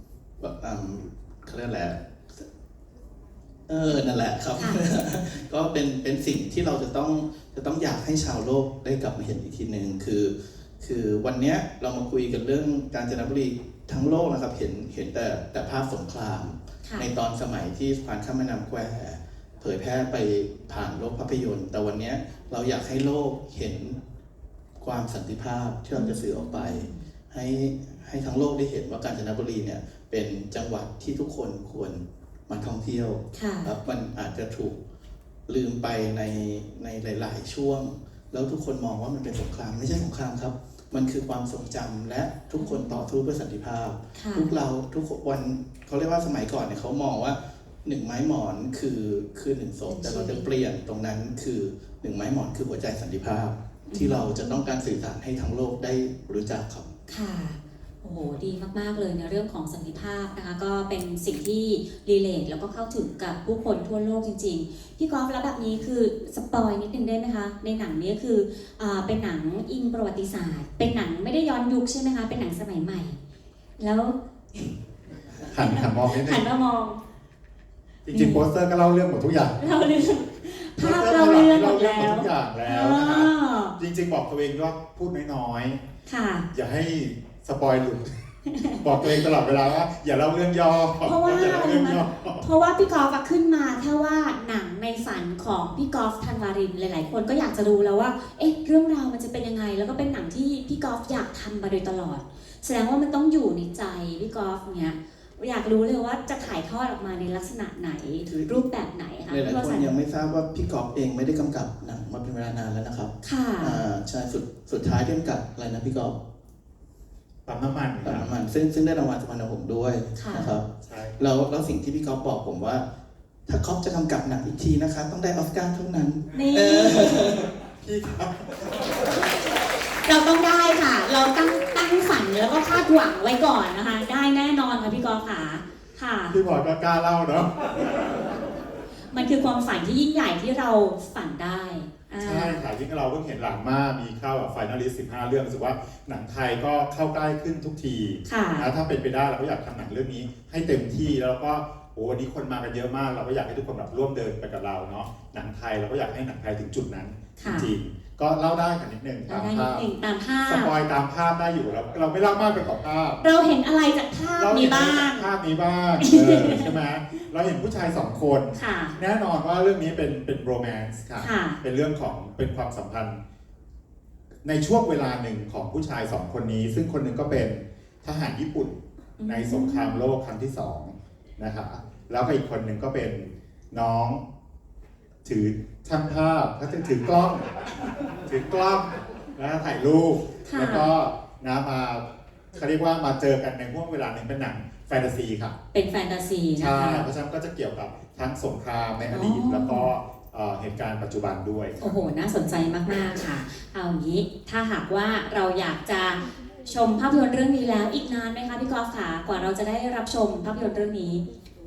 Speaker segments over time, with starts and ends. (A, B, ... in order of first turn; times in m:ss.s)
0:00.4-0:02.4 A
0:03.7-0:24.0 A
0:04.6-0:04.8 B
0:24.8-0:34.8 A
0:25.9-0:27.0 B
0:33.3-0:33.7 B
0:35.5-0:56.9 A
0:42.6-0:43.0 B
0:44.1-0:44.5 B
0:49.9-0:50.4 B
0:53.9-0:54.5 B
0:57.1-1:13.2 B
1:13.8-1:14.8 B
1:15.5-1:16.4 C
1:15.5-1:17.0 B
1:18.0-1:19.6 C
1:18.1-1:18.4 B
1:19.6-1:23.8 B
1:20.8-1:25.8 C
1:26.1-1:26.4 B
1:26.5-1:28.1 C
1:28.5-1:28.8 B
1:28.8-1:32.4 C
1:31.0-1:49.9 B
1:48.2-1:48.5 A
1:49.3-1:56.2 A
1:53.2-1:53.8 B
1:57.4-1:58.3 C
1:58.0-2:00.7 A
2:00.1-2:00.6 B
2:00.8-2:01.2 C
2:01.2-2:02.8 A
2:03.5-2:07.5 A
2:06.3-2:07.2 B
2:07.8-2:09.1 C
2:10.0-2:16.4 B
2:16.3-2:18.0 C
2:19.1-2:22.6 B
2:22.2-2:39.8 C
2:28.2-2:28.7 B
2:37.4-2:37.7 B
2:39.3-2:40.7 B
2:40.4-2:43.2 C
2:43.2-2:45.3 B
2:44.4-2:53.2 C
2:46.0-2:46.7 B
2:48.5-2:49.0 B
2:51.2-2:51.6 B
2:54.4-3:04.2 C
2:59.2-3:00.0 B
3:05.2-3:07.5 C
3:08.2-3:15.5 C
3:10.4-3:10.9 B
3:15.7-3:17.1 B
3:16.6-3:22.1 C
3:19.1-3:19.9 B
3:21.8-3:31.2 B